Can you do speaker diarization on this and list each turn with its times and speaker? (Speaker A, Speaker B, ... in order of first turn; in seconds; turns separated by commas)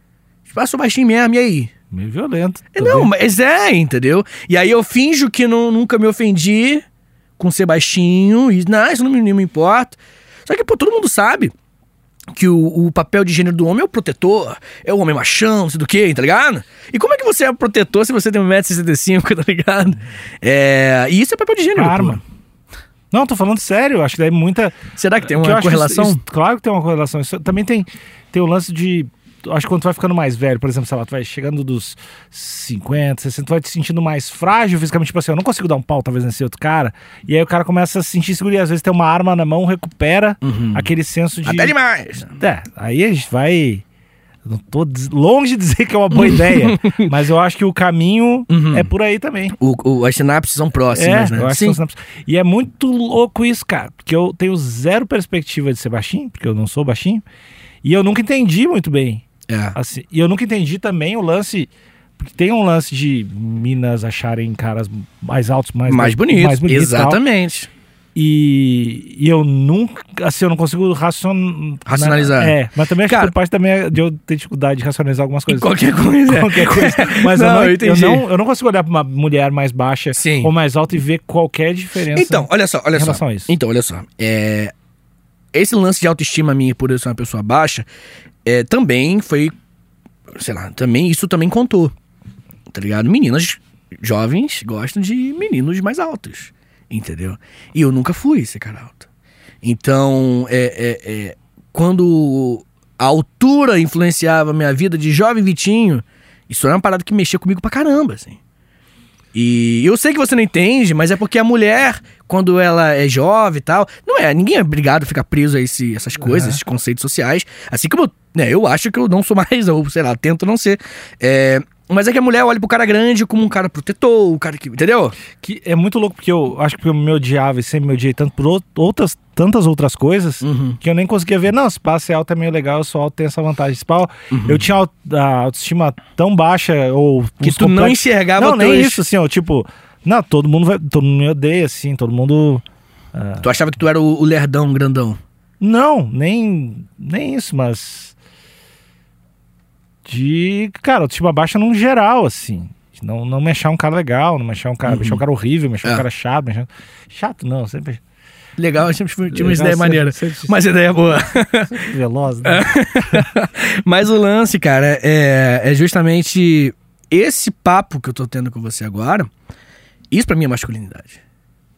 Speaker A: 0.5-1.7, Speaker B: 1.9-3.1, Speaker A: 2.7-6.8, Speaker A: 7.4-11.5, Speaker A: 12.3-22.2, Speaker B: 21.7-22.2, Speaker B: 23.1-41.7, Speaker A: 24.9-26.2, Speaker A: 40.4-40.9, Speaker A: 41.4-42.4, Speaker B: 42.3-43.8, Speaker B: 44.4-49.5, Speaker A: 46.1-47.1, Speaker A: 48.5-48.9, Speaker A: 49.6-51.8, Speaker B: 50.9-57.2, Speaker B: 57.8-67.2, Speaker A: 59.5-59.8, Speaker A: 65.9-67.7, Speaker B: 68.1-83.5, Speaker A: 71.9-73.3, Speaker A: 75.5-78.2, Speaker A: 80.1-80.5, Speaker A: 82.1-84.7, Speaker A: 85.5-87.8, Speaker A: 88.4-89.5, Speaker A: 90.3-91.9, Speaker A: 92.7-99.1, Speaker A: 99.6-108.4, Speaker A: 109.3-125.2, Speaker B: 116.2-116.6, Speaker B: 125.4-142.6, Speaker A: 130.4-130.8, Speaker A: 134.3-134.6, Speaker A: 137.4-139.0, Speaker B: 143.1-143.5, Speaker A: 143.4-145.2, Speaker B: 145.6-148.1, Speaker B: 150.1-158.0, Speaker A: 154.8-155.2, Speaker A: 158.6-161.7, Speaker B: 159.3-160.6, Speaker B: 161.7-163.2, Speaker A: 162.4-169.3, Speaker A: 170.1-171.2